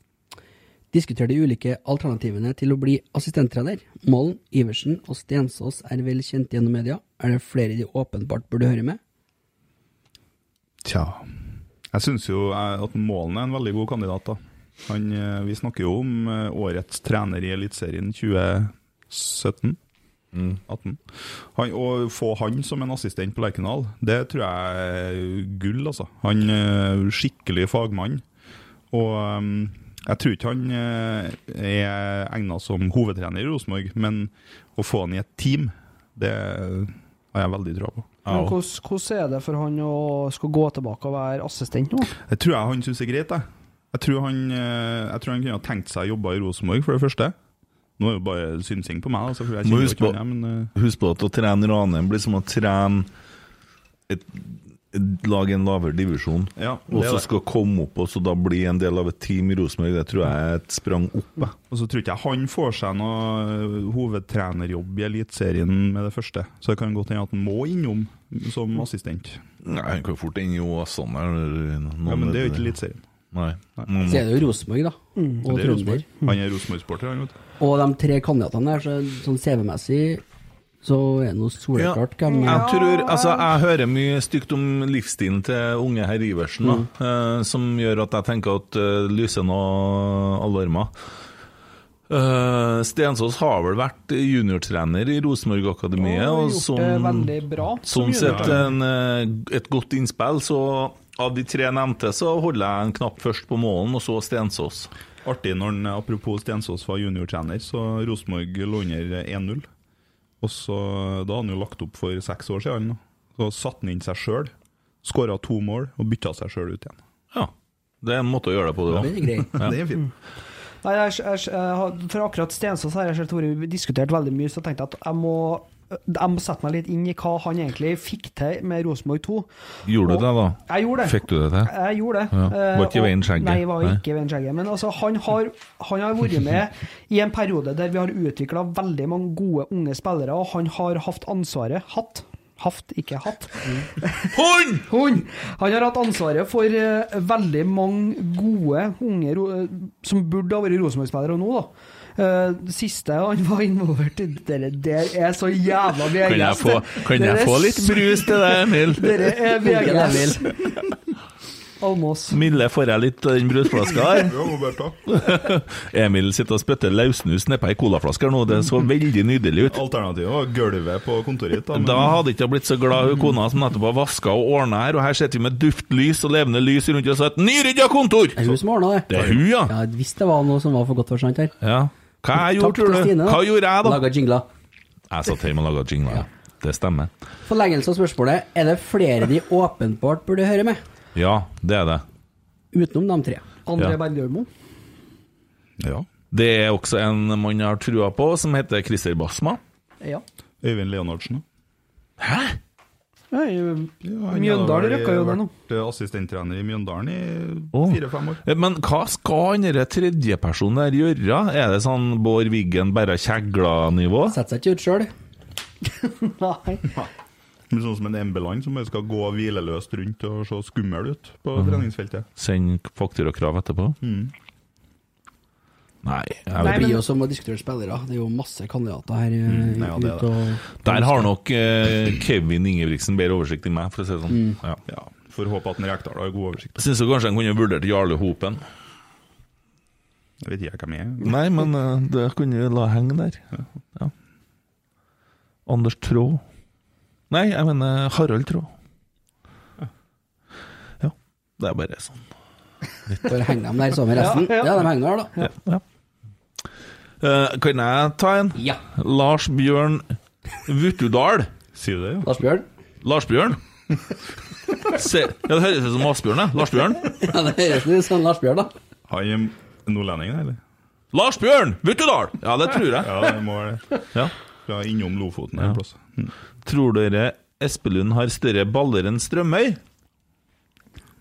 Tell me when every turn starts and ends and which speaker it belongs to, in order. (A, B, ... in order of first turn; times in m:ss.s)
0:00.9-0:09.0 A
0:10.8-0:11.4 B
0:11.9-0:19.8 B
0:20.3-0:20.6 C
0:20.7-0:28.2 B
0:28.9-0:38.1 B
0:38.2-0:38.6 C
0:38.3-0:42.1 D
0:42.3-0:47.4 B
0:48.0-0:50.7 B
0:49.6-0:50.2 C
0:50.7-0:53.1 C
0:54.1-1:01.5 C
0:56.6-0:57.3 B
1:01.7-1:09.4 B
1:09.6-1:12.8 C
1:12.0-1:13.0 B
1:13.3-1:14.3 C
1:14.1-1:16.0 A
1:15.2-1:15.5 D
1:15.5-1:17.3 B
1:17.6-1:20.2 A
1:20.8-1:22.7 A
1:21.8-1:30.9 C
1:22.3-1:23.5 D
1:26.6-1:26.9 A
1:32.1-1:37.3 C
1:36.0-1:38.6 D
1:37.9-1:44.9 C
1:38.2-1:38.6 B
1:45.2-1:49.7 B
1:50.4-1:54.5 B
1:55.0-1:57.0 B
1:57.3-1:59.8 C
1:58.9-1:59.8 A
1:59.0-2:00.1 B
2:00.8-2:09.5 D
2:09.9-2:11.7 C
2:10.0-2:24.4 D
2:12.3-2:14.0 C
2:24.3-2:24.9 C
2:24.9-2:40.7 D
2:36.2-2:39.4 C
2:39.6-2:40.5 A
2:41.8-2:42.4 D
2:42.3-2:44.4 C
2:44.0-2:45.0 B
2:45.1-2:49.8 C
2:49.7-2:52.2 B
2:51.7-2:58.6 C
2:58.4-3:01.5 A
2:59.1-2:59.7 C
3:01.6-3:04.0 C
3:02.4-3:04.5 A
3:05.1-3:07.1 C
3:07.5-3:10.8 A
3:11.2-3:12.0 C
3:12.7-3:13.4 A
3:13.7-3:14.5 D
3:15.8-3:16.1 B
3:16.3-3:19.6 C
3:20.6-3:21.4 B
3:22.2-3:22.6 C
3:23.3-3:25.5 D
3:24.0-3:28.4 B
3:27.7-3:34.4 C
3:34.3-3:35.1 A
3:36.0-3:36.9 D
3:37.7-3:42.3 B
3:41.6-3:41.8 C
3:42.4-3:44.0 C
3:44.0-3:44.3 B
3:46.0-3:46.9 C
3:46.6-3:47.0 D
3:46.6-3:51.3 A
3:49.5-3:50.3 B
3:50.8-3:54.8 C
3:54.3-3:54.6 A
3:54.9-3:56.8 B
3:56.8-3:58.6 C
4:00.4-4:01.4 B
4:01.2-4:03.4 C
4:05.7-4:06.4 C
4:07.3-4:08.7 C
4:11.0-4:12.2 C
4:13.2-4:15.3 A
4:14.2-4:15.5 D
4:15.4-4:15.8 C
4:17.2-4:21.5 C
4:21.7-4:22.3 B
4:22.2-4:22.6 A
4:23.0-4:23.6 C
4:24.8-4:27.1 C
4:27.0-4:28.7 A
4:29.1-4:30.6 B
4:31.1-4:33.3 C
4:32.9-4:34.0 B
4:34.7-4:36.3 B
4:36.6-4:39.8 C